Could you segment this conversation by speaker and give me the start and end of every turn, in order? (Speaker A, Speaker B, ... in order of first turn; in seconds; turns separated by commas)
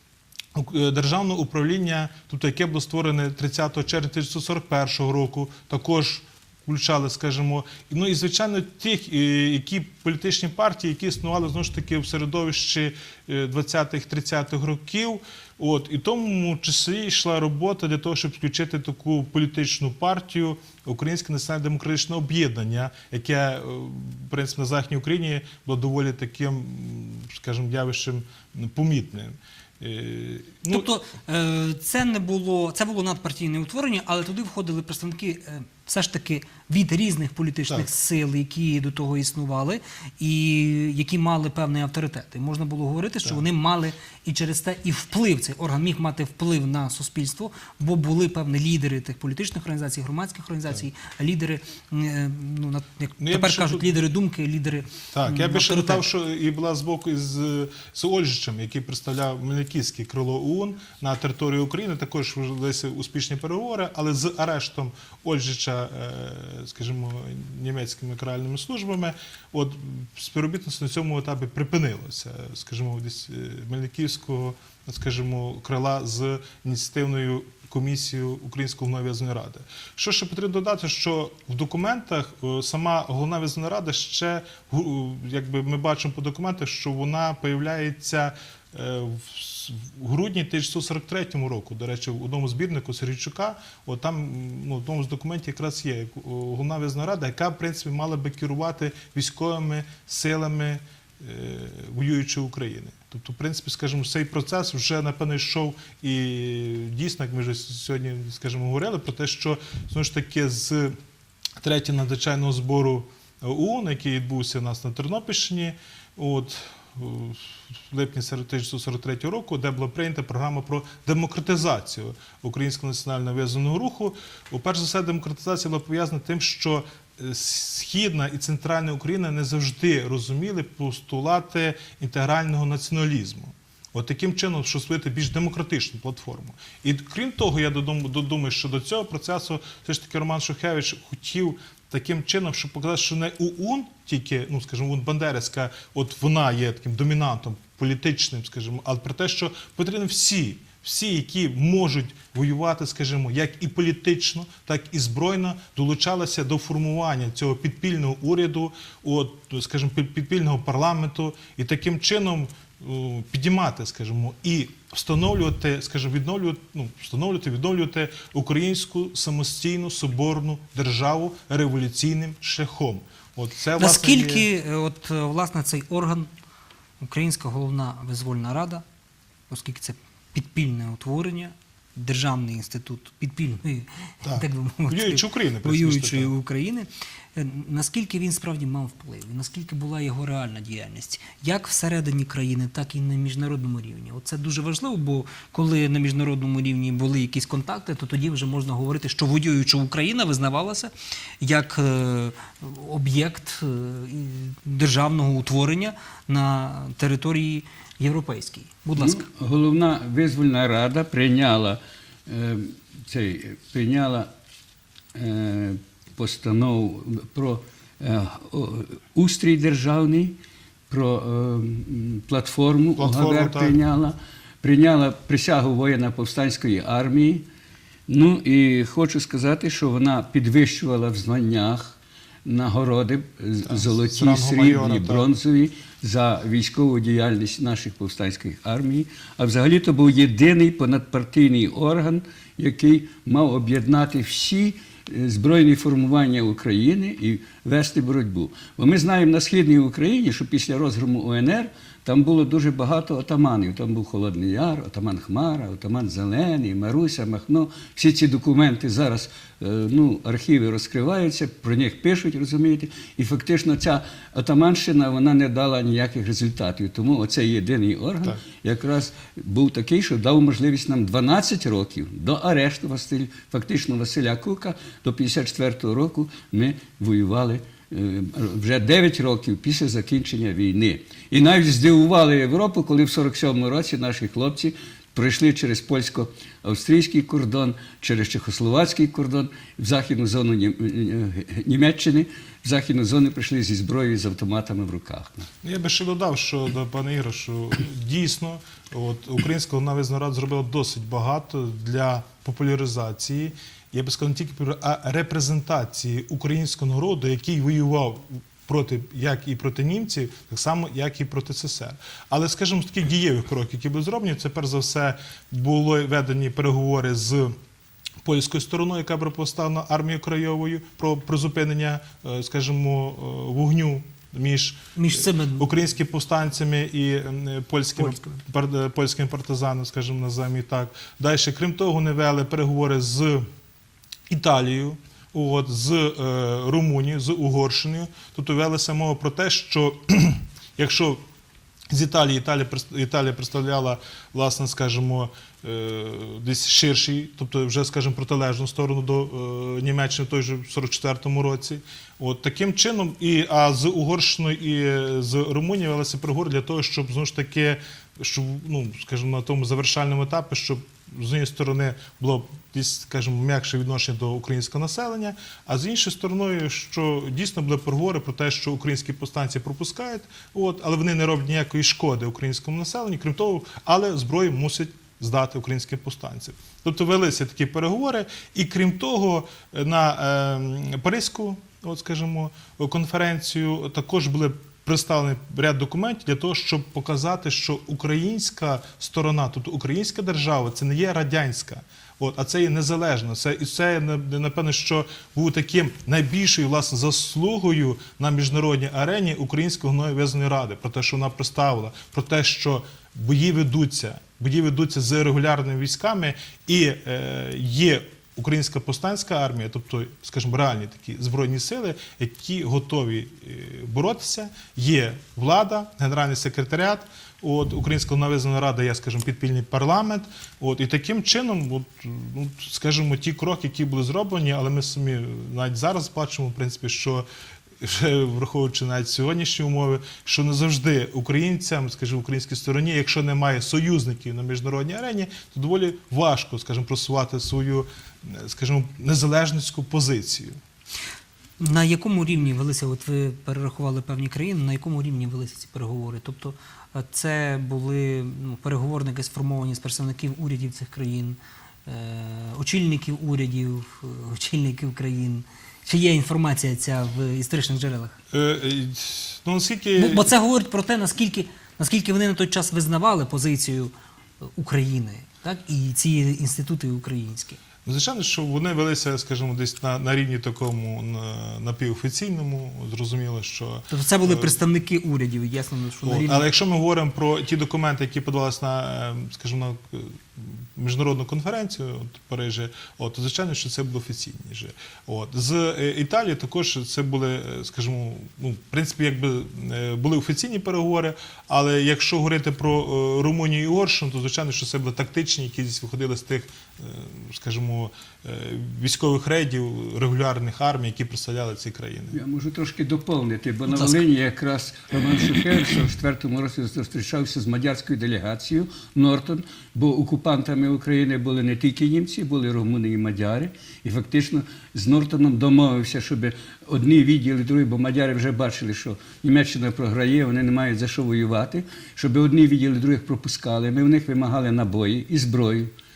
Speaker A: 0.5-30.9, Speaker B: 30.7-56.0, Speaker A: 53.2-54.0, Speaker A: 55.1-110.9, Speaker A: 111.6-174.4, Speaker B: 173.8-176.3, Speaker B: 177.0-178.8, Speaker B: 179.5-209.2, Speaker A: 184.2-186.3, Speaker C: 209.0-214.3, Speaker C: 215.1-220.3, Speaker C: 220.9-227.4, Speaker A: 223.0-223.8, Speaker C: 228.1-295.5, Speaker A: 233.6-235.3, Speaker A: 295.6-317.5, Speaker A: 318.2-333.4, Speaker B: 324.9-325.7, Speaker A: 334.3-341.2, Speaker A: 341.9-427.2, Speaker A: 427.8-440.6, Speaker B: 441.6-458.2, Speaker A: 458.3-460.3, Speaker B: 459.9-467.6, Speaker A: 467.8-474.6, Speaker B: 473.9-476.4, Speaker A: 476.0-502.2, Speaker C: 502.1-525.7, Speaker B: 503.7-504.0